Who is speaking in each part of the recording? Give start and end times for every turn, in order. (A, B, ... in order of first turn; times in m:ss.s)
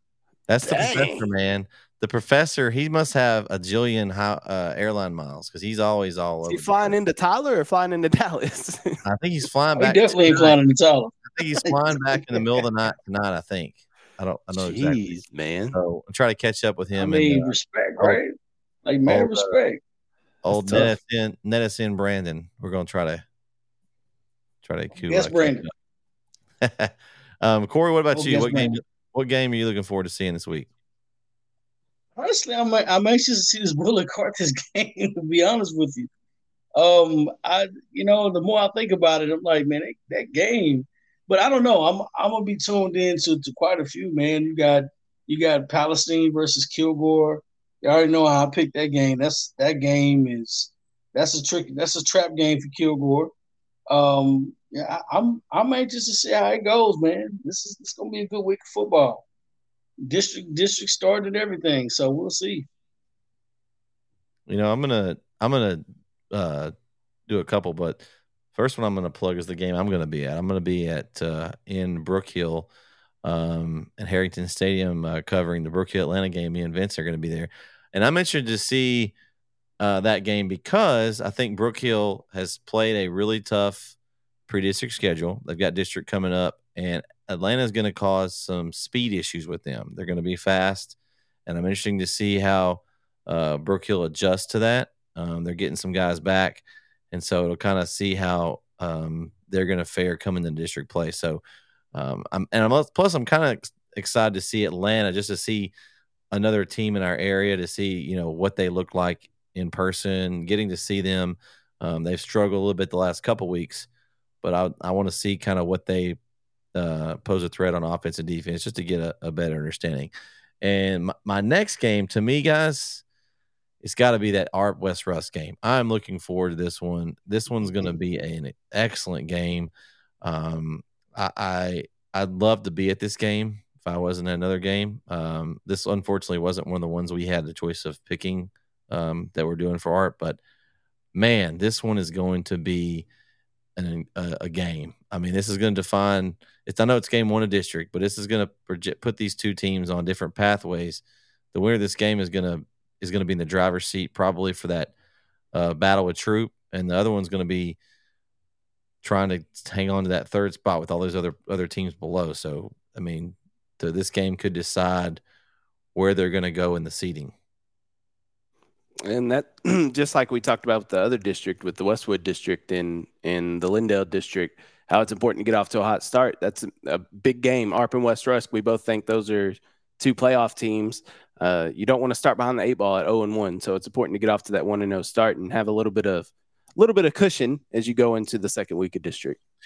0:00.5-0:06.9 A
0:00.6-0:01.3 B
0:06.5-0:09.0 B
0:09.0-0:10.5 A
0:09.8-0:12.4 C
0:11.3-0:15.2 A
0:14.5-0:15.8 B
0:15.7-0:18.2 A
0:17.0-0:18.3 C
0:18.9-0:19.8 C
0:19.1-0:19.5 A
0:20.4-0:23.2 A
0:20.5-0:20.9 B
0:24.6-0:25.7 A
0:25.1-0:25.7 C
0:26.6-0:30.7 A
0:28.1-0:28.8 C
0:32.2-0:36.1 C
0:36.8-0:53.3 C
0:53.9-0:59.2 C
1:00.0-1:02.7 C
1:04.5-1:05.8 A
1:06.3-1:06.7 A
1:07.3-1:12.7 A
1:13.2-1:19.1 A
1:19.8-1:24.0 A
1:24.5-1:31.0 A
1:31.5-1:41.4 A
1:41.9-1:45.7 A
1:46.3-1:53.9 A
1:54.4-1:56.2 A
1:56.8-2:00.1 A
2:00.6-2:03.0 A
2:03.8-2:09.7 A
2:10.2-2:20.4 A
2:21.2-2:23.1 A
2:23.8-2:34.9 A
2:35.5-2:37.8 A
2:39.0-2:45.2 A
2:46.0-2:47.3 A
2:49.0-3:09.4 B